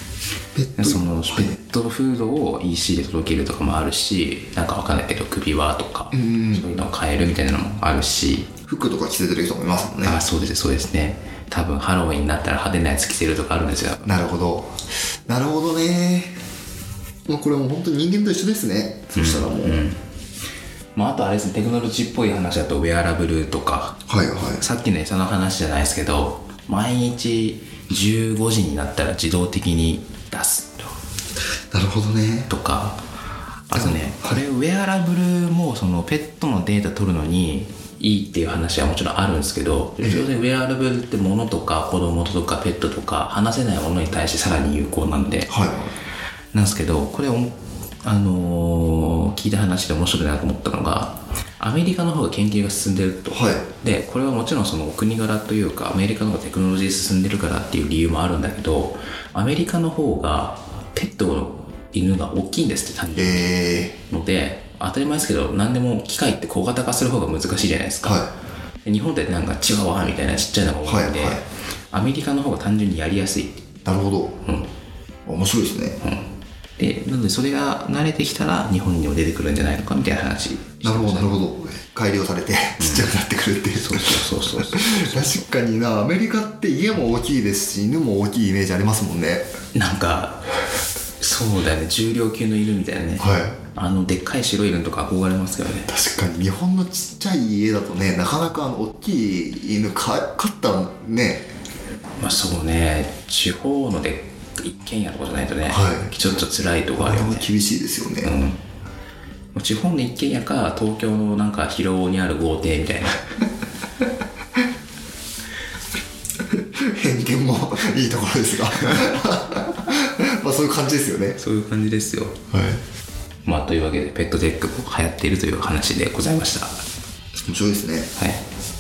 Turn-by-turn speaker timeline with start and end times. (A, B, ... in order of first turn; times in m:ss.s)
0:00.5-0:01.6 A
0:00.8-0:08.5 B
0:06.1-0:06.7 A
0:08.7-0:10.2 A
0:10.0-0:14.2 B
0:14.0-0:16.4 A
0:17.3-0:19.8 A
0:19.1-0:20.0 B
0:20.9-0:24.0 B
0:24.1-0:24.6 A
0:24.6-0:30.9 B
0:31.7-0:32.5 A
0:32.5-0:33.0 B
0:33.7-0:45.5 B
0:33.7-0:34.4 A
0:40.0-0:40.3 A
0:45.5-0:45.9 A
0:46.5-1:08.2 B
0:53.3-0:53.6 A
1:03.1-1:04.0 A
1:08.0-1:08.3 A
1:08.8-1:13.6 B
1:10.8-1:11.4 A
1:13.8-1:14.4 A
1:15.2-1:16.0 A
1:16.0-1:21.4 B
1:20.8-1:29.4 A
1:22.8-1:23.1 B
1:23.7-1:25.2 B
1:29.7-1:30.4 B
1:31.2-1:35.9 B
1:33.2-1:33.6 A
1:35.9-1:41.5 A
1:42.2-1:47.5 B
1:45.6-1:46.1 A
1:47.0-1:48.3 A
1:48.2-1:48.6 B
1:49.5-1:53.4 B
1:56.5-2:01.4 A
2:01.4-2:02.4 B
2:02.5-2:02.8 A
2:03.4-2:06.8 B
2:07.5-2:08.1 A
2:08.2-2:08.4 B